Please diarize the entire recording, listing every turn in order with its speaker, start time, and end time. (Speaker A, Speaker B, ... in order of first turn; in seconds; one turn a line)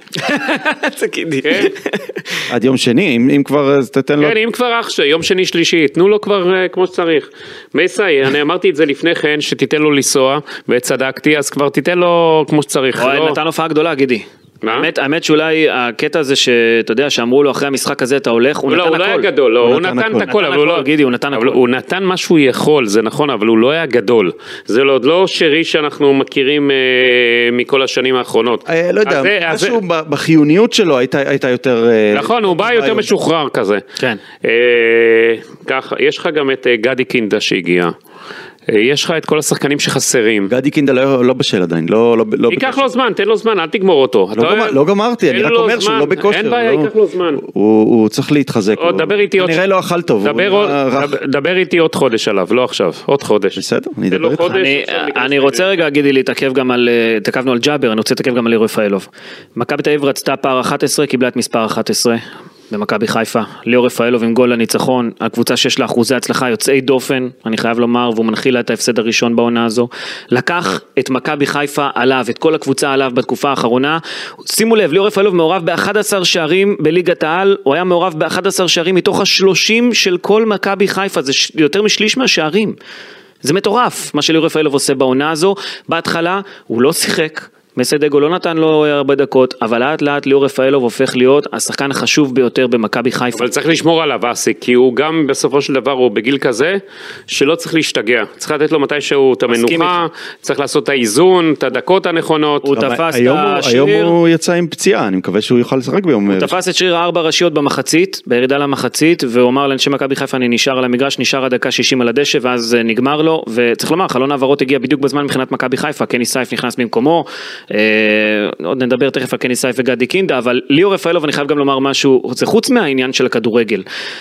Speaker A: 0.2-2.2
Speaker B: 1.4-1.7
Speaker C: 2.5-4.3
Speaker B: 4.2-13.4
Speaker A: 12.9-19.3
Speaker B: 14.6-14.9
Speaker B: 18.7-29.8
Speaker C: 19.6-20.3
Speaker A: 20.3-21.6
Speaker C: 28.7-33.1
Speaker B: 32.1-33.8
Speaker B: 34.4-37.9
Speaker B: 38.7-40.5
Speaker C: 40.5-42.9
Speaker B: 42.5-47.4
Speaker C: 44.3-51.2
Speaker B: 48.8-49.6
Speaker B: 50.2-53.6
Speaker C: 53.5-54.5
Speaker B: 54.1-55.8
Speaker A: 54.5-82.8
Speaker A: 83.4-93.5
Speaker B: 93.3-102.7
Speaker A: 99.5-100.0
Speaker A: 102.6-104.1
Speaker C: 102.7-106.5
Speaker A: 106.3-123.8